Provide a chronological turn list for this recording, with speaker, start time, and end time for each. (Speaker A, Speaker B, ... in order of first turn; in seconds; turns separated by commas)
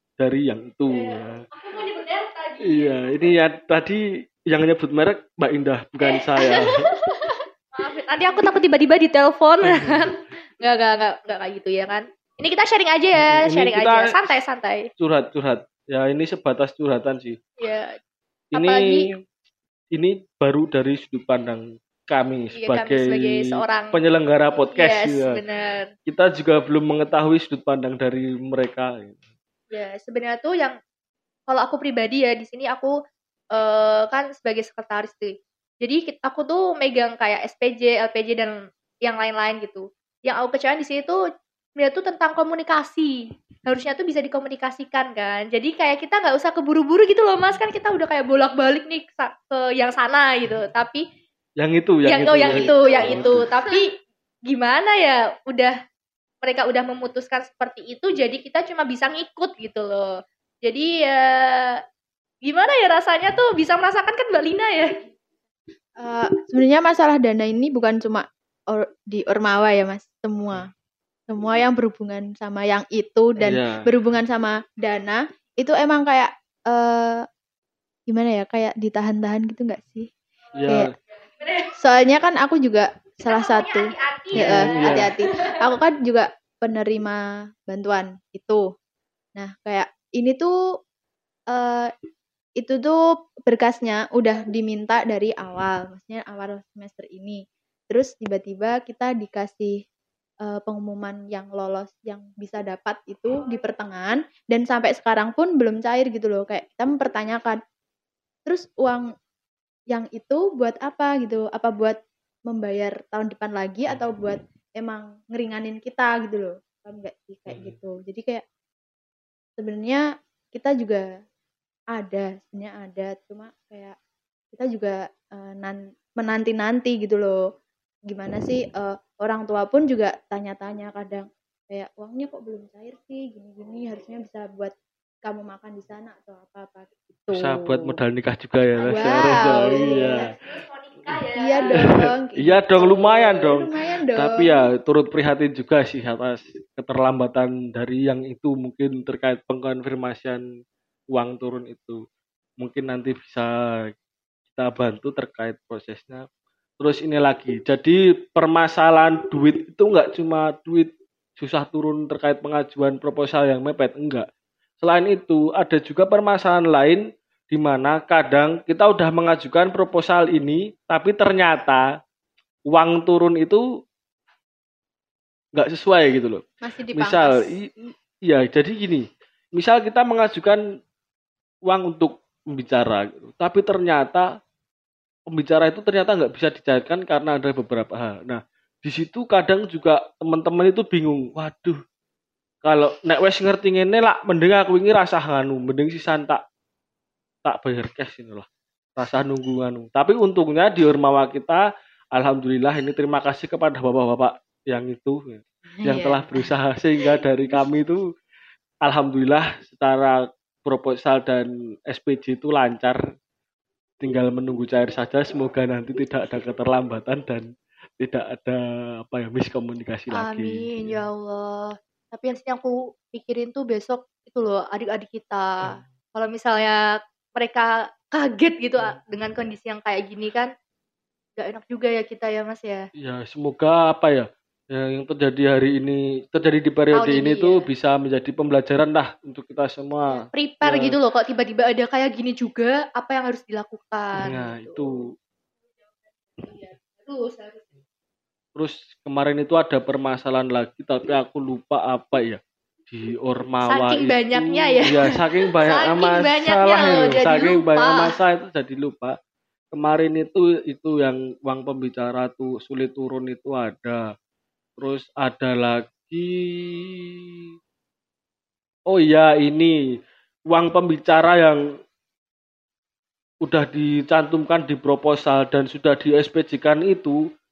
Speaker A: 0.2-1.4, Speaker B: 0.9-3.0, Speaker A: 2.6-6.8, Speaker B: 6.0-14.9, Speaker A: 9.6-10.1, Speaker A: 13.2-14.2, Speaker A: 15.0-17.4, Speaker B: 17.6-18.0, Speaker A: 18.5-19.1, Speaker B: 18.5-19.1, Speaker A: 19.9-25.4, Speaker B: 22.5-24.0, Speaker B: 24.7-25.9, Speaker A: 26.1-29.2, Speaker B: 29.7-30.8, Speaker B: 31.5-32.9, Speaker B: 33.5-41.2, Speaker B: 41.8-51.0, Speaker A: 51.6-53.4, Speaker B: 52.0-53.9, Speaker C: 52.4-53.8, Speaker B: 54.5-55.8, Speaker B: 56.4-60.1, Speaker B: 60.6-61.8, Speaker B: 62.4-65.0, Speaker C: 66.0-70.7, Speaker C: 71.3-77.2, Speaker A: 73.4-73.8, Speaker C: 78.1-80.1, Speaker A: 80.5-80.9, Speaker B: 80.7-81.8, Speaker C: 81.8-88.6, Speaker B: 83.3-85.7, Speaker A: 84.3-85.1, Speaker C: 89.4-90.5, Speaker C: 91.5-91.9, Speaker C: 92.6-99.8, Speaker C: 100.5-107.6, Speaker C: 108.5-109.1, Speaker C: 109.9-112.0, Speaker C: 112.5-118.4, Speaker A: 117.5-117.8, Speaker C: 119.6-121.0, Speaker C: 121.9-124.0, Speaker C: 124.5-127.4, Speaker C: 128.1-137.9, Speaker A: 137.3-140.3, Speaker C: 138.8-140.3, Speaker B: 139.2-141.9, Speaker C: 141.4-144.6, Speaker A: 141.7-150.4, Speaker A: 151.1-152.0, Speaker A: 152.6-153.9, Speaker A: 154.5-156.3, Speaker A: 156.8-164.3, Speaker A: 164.8-171.9, Speaker A: 172.7-173.6, Speaker A: 175.6-179.0, Speaker C: 176.6-177.5, Speaker A: 179.6-180.6, Speaker A: 181.7-184.3, Speaker A: 185.3-191.8, Speaker A: 192.6-196.4, Speaker A: 197.4-208.1, Speaker C: 205.8-206.5, Speaker A: 208.8-213.0, Speaker A: 214.0-221.0, Speaker B: 220.1-226.8, Speaker B: 227.3-230.5, Speaker B: 231.4-232.9, Speaker A: 233.0-241.0, Speaker B: 236.9-237.6, Speaker B: 240.1-244.9, Speaker A: 244.2-245.0, Speaker B: 246.4-247.7, Speaker A: 248.6-259.2, Speaker B: 253.6-258.2, Speaker A: 259.7-264.1, Speaker A: 264.8-267.1, Speaker A: 268.9-269.8, Speaker A: 270.5-271.6, Speaker A: 273.4-277.2